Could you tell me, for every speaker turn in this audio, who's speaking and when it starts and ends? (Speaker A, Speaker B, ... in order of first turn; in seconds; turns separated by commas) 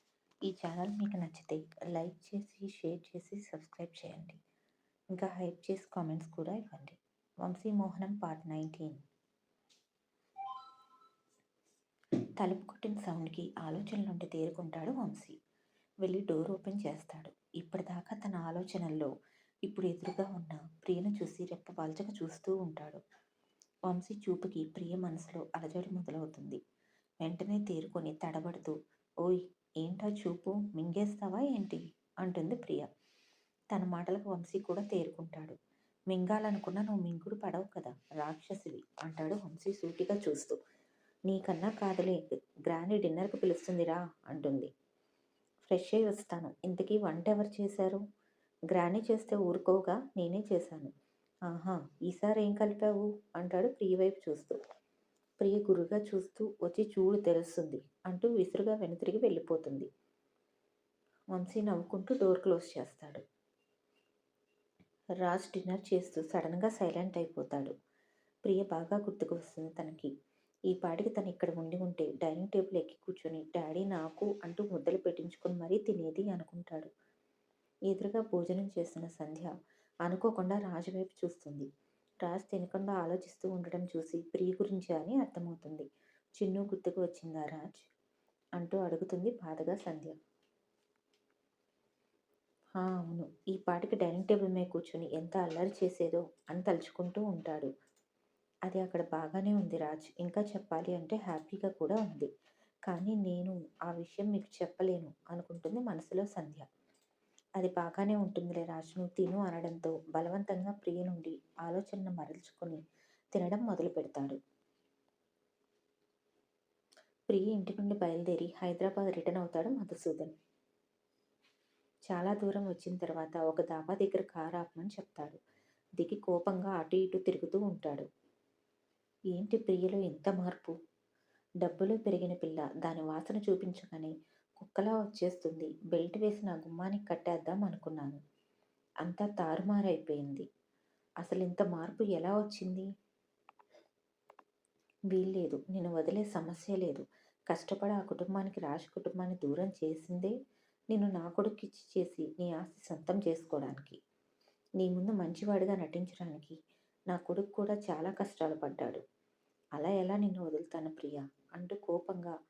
Speaker A: 0.5-4.4, Speaker A: 5.1-9.0, Speaker A: 12.4-15.3, Speaker A: 16.0-19.1, Speaker A: 19.6-23.0, Speaker A: 23.9-26.6, Speaker A: 27.2-32.9, Speaker A: 33.7-35.5, Speaker A: 36.1-40.6, Speaker A: 41.3-44.7, Speaker A: 45.7-48.0, Speaker A: 48.7-50.9, Speaker A: 51.5-54.6, Speaker A: 55.4-59.9, Speaker A: 61.3-63.2, Speaker A: 65.2-67.7, Speaker A: 68.4-70.1, Speaker A: 70.7-76.9, Speaker A: 77.9-79.5, Speaker A: 80.0-81.7, Speaker A: 82.2-85.9, Speaker A: 86.4-87.8, Speaker A: 88.6-90.1, Speaker A: 92.8-97.7, Speaker A: 98.7-102.3, Speaker A: 102.9-106.6, Speaker A: 107.6-112.8, Speaker A: 113.3-114.4, Speaker A: 117.3-120.3, Speaker A: 122.1-125.4, Speaker A: 126.0-128.1, Speaker A: 129.3-130.7, Speaker A: 131.6-138.2, Speaker A: 139.0-140.4, Speaker A: 141.2-142.8, Speaker A: 145.1-150.3, Speaker A: 150.9-154.0, Speaker A: 154.8-156.5, Speaker A: 157.1-159.0, Speaker A: 159.8-162.3